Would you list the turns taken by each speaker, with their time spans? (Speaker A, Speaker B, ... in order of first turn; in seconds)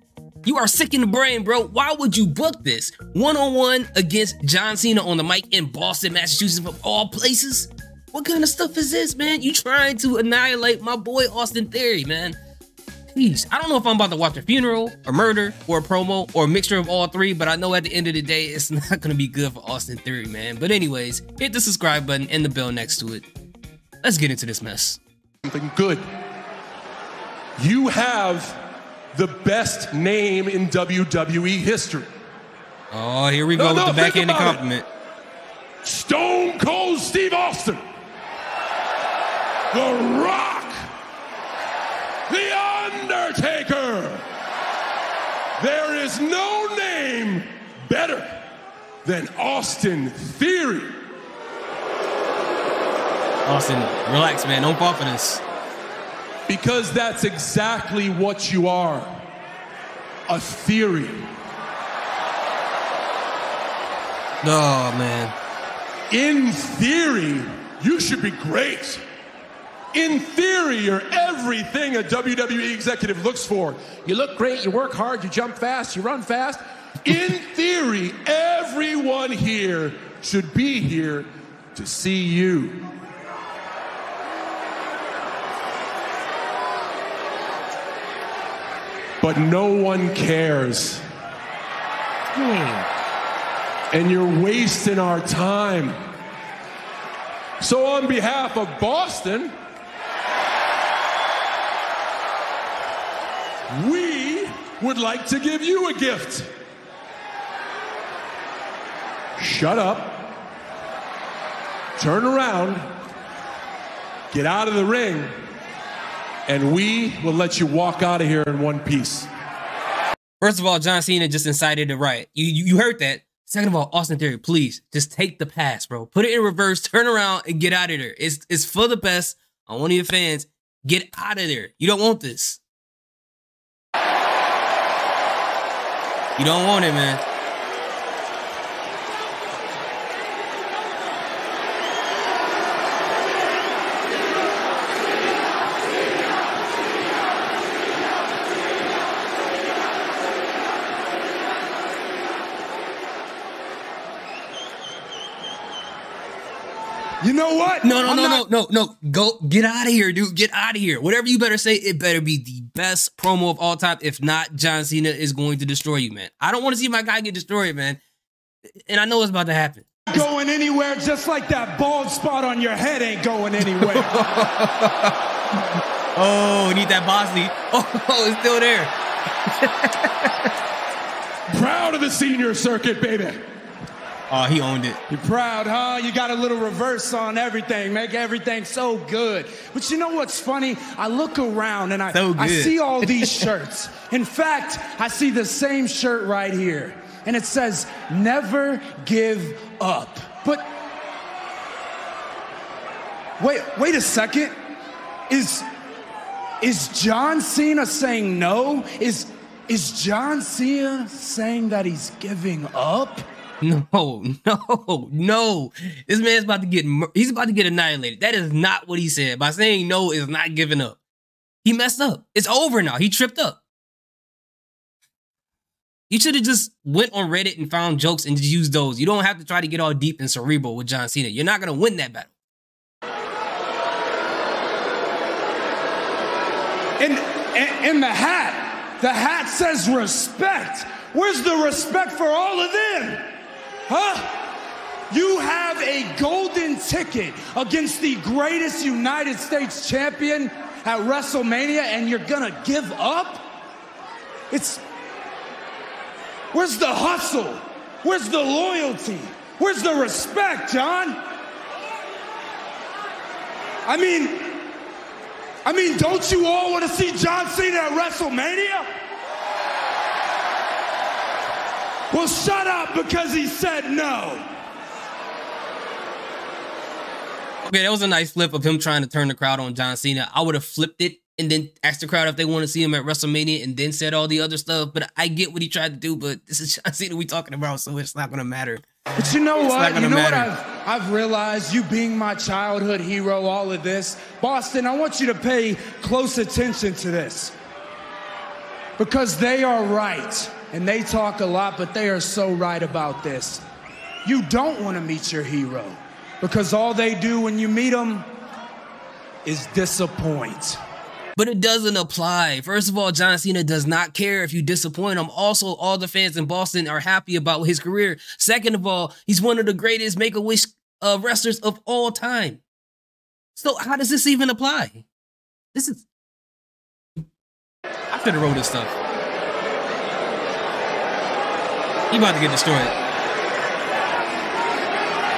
Speaker A: 0.5-12.4, 13.1-23.3, 24.0-25.0, 32.9-34.9, 53.5-55.4, 64.4-65.3, 92.3-92.9, 120.4-132.6, 136.4-137.2, 157.8-168.0, 168.9-170.3, 173.7-175.2, 176.2-178.9, 179.5-180.5, 184.3-185.0, 192.1-193.5, 213.6-221.0, 221.6-223.6, 226.1-232.3, 277.6-288.9, 289.5-290.5, 311.4-322.6, 323.6-325.1, 325.7-326.1, 328.1-329.0, 332.1-332.9
Speaker B: 25.4-26.0, 27.6-28.6, 29.1-32.1, 33.5-34.6, 35.8-37.8, 39.7-40.8, 42.3-44.2, 45.6-48.4, 49.0-50.9, 56.5-59.2, 60.3-61.2, 66.1-69.0, 69.9-82.8, 89.2-91.0, 93.9-96.0, 97.6-99.5, 103.7-106.5, 109.4-110.3, 112.0-112.8, 114.3-115.3, 116.5-119.3, 181.5-183.4
Speaker C: 157.2-158.4, 170.1-174.3, 185.1-200.7, 203.4-204.6, 205.3-205.7, 206.6-213.2, 237.0-243.3, 243.9-244.5, 245.1-253.5, 254.5-254.8, 256.5-261.2, 263.9-264.7, 265.6-268.9, 272.1-274.5, 289.2-297.5, 299.0-303.6, 304.2-308.3, 309.4-310.8